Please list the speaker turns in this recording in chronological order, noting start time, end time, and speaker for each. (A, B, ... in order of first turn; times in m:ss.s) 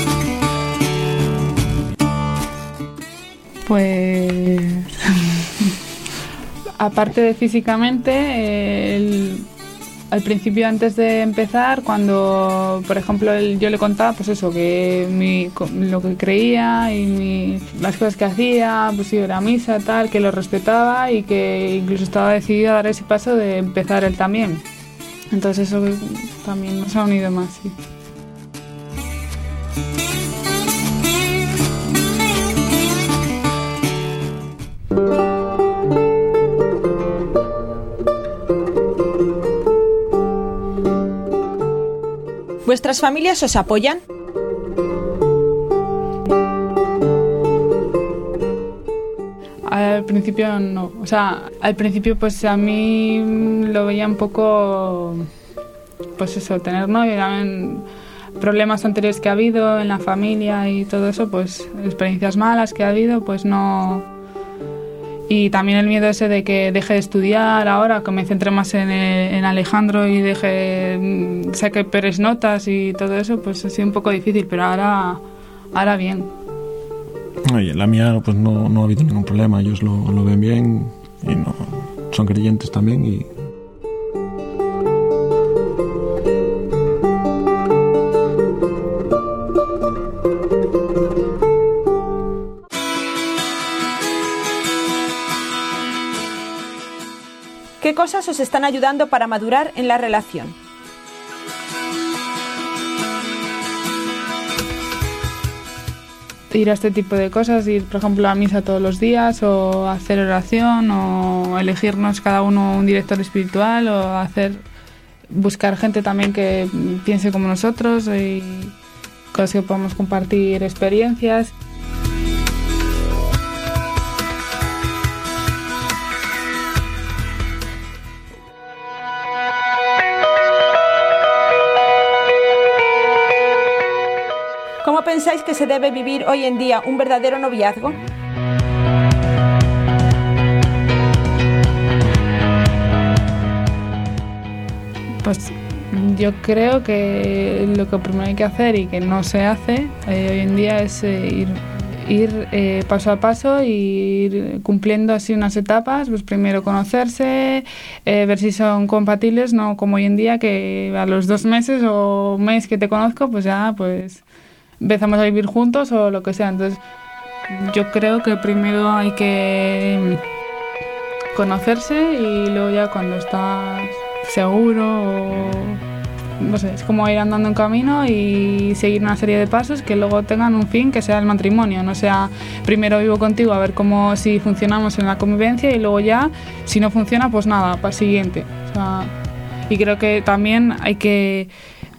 0:03.6-0:05.7 A
0:06.8-0:09.5 A
0:10.1-0:24.6 A
0:25.3-0:27.8 A
0:42.6-0:44.0 B
0:49.6-0:55.3 A
0:56.2-1:04.1 A
1:05.3-1:15.2 A
1:15.7-1:16.3 A
1:17.5-1:23.3 C
1:37.8-1:40.6 B
1:46.5-1:54.6 A
1:55.3-1:58.8 A
1:59.3-2:01.5 A
2:14.8-2:18.0 B
2:25.2-2:44.2 A
2:44.8-2:46.8 A
2:47.5-2:50.2 A
2:51.3-2:55.8 A
2:56.4-3:09.1 A
3:09.7-3:11.5 A